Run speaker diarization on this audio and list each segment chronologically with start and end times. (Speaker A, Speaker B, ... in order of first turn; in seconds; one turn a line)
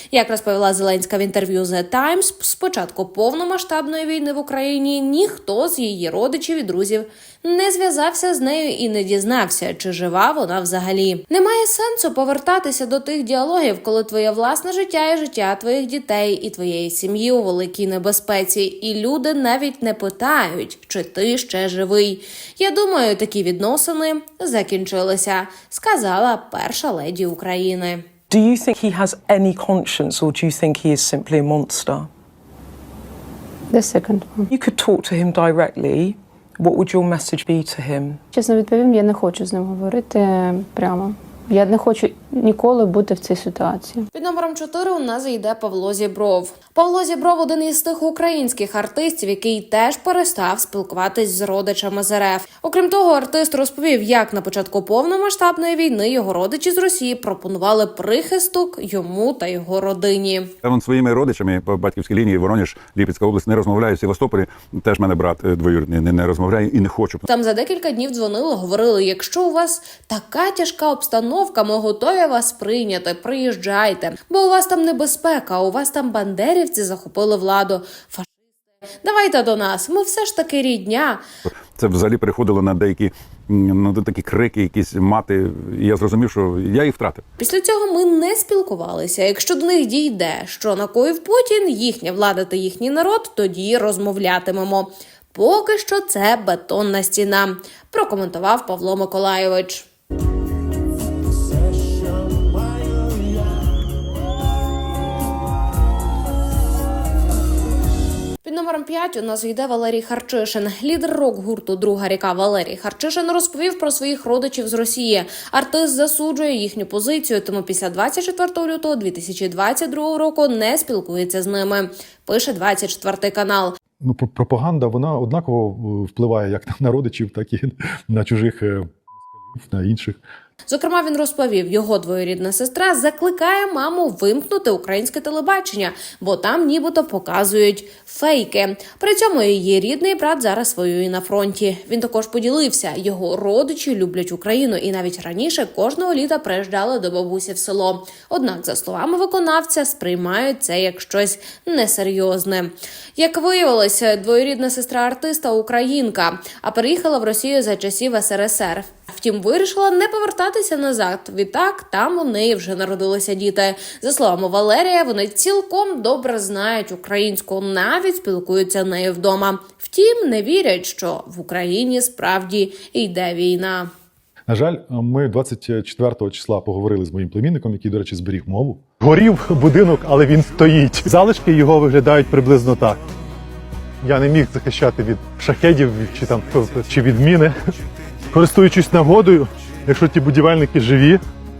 Speaker A: 0.1-28.0
Speaker B: 28.3-32.1
Speaker C: 33.7-34.5
Speaker B: 34.5-38.2
Speaker C: 38.3-44.1
Speaker A: 44.1-60.5
Speaker D: 60.6-67.2
Speaker A: 67.3-78.3
Speaker A: 79.0-81.2
Speaker D: 81.7-87.2
Speaker A: 87.4-99.9
Speaker A: 108.4-123.8
Speaker E: 124.0-128.9
Speaker E: 129.5-130.2
Speaker A: 130.7-173.9
Speaker E: 174.5-183.0
Speaker E: 184.0-187.5
Speaker E: 188.3-191.2